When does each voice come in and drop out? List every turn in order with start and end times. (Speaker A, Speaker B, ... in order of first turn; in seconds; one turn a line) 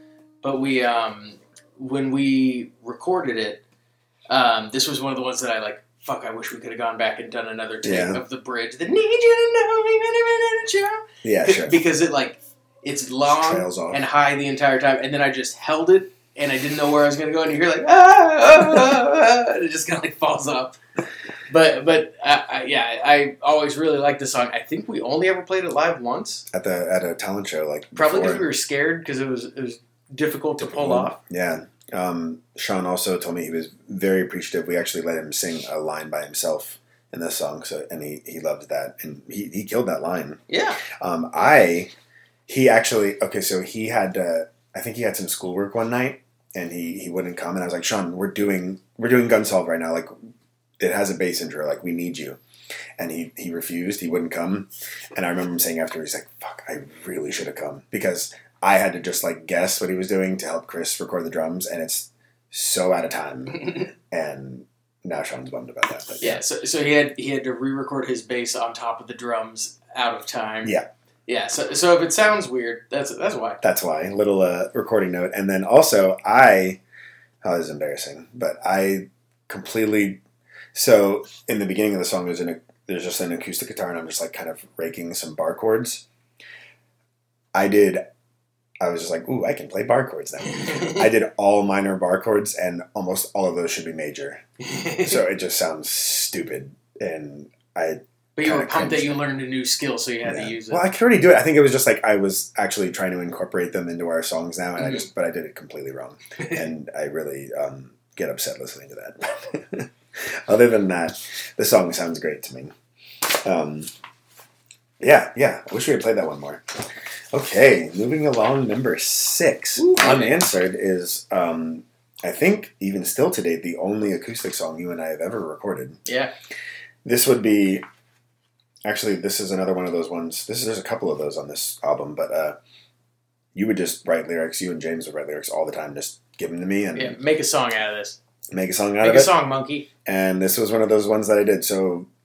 Speaker A: 0.4-3.6
Speaker A: 4.3-20.8
Speaker B: 7.8-8.2
Speaker B: 11.2-11.8
Speaker B: 13.2-14.0
Speaker A: 21.5-26.4
Speaker B: 26.5-28.5
Speaker A: 27.9-31.2
Speaker B: 30.6-40.4
Speaker A: 40.5-40.8
Speaker B: 40.9-41.9
Speaker B: 42.5-50.1
Speaker B: 50.8-52.4
Speaker B: 53.0-66.4
Speaker A: 66.2-70.7
Speaker A: 71.3-73.6
Speaker B: 73.6-76.8
Speaker B: 77.4-80.2
Speaker B: 80.7-86.0
Speaker B: 87.5-88.0
Speaker B: 88.8-94.4
Speaker A: 90.5-91.0
Speaker A: 94.6-95.2
Speaker B: 95.0-99.2
Speaker A: 98.4-100.8
Speaker B: 100.2-112.7
Speaker B: 113.3-113.9
Speaker B: 115.0-116.7
Speaker B: 117.3-126.0
Speaker A: 119.8-120.3
Speaker A: 126.1-126.3
Speaker B: 127.0-127.8
Speaker B: 128.8-132.6
Speaker B: 133.5-137.2
Speaker A: 136.9-138.2
Speaker B: 138.5-139.3
Speaker A: 139.0-139.8
Speaker B: 140.0-142.1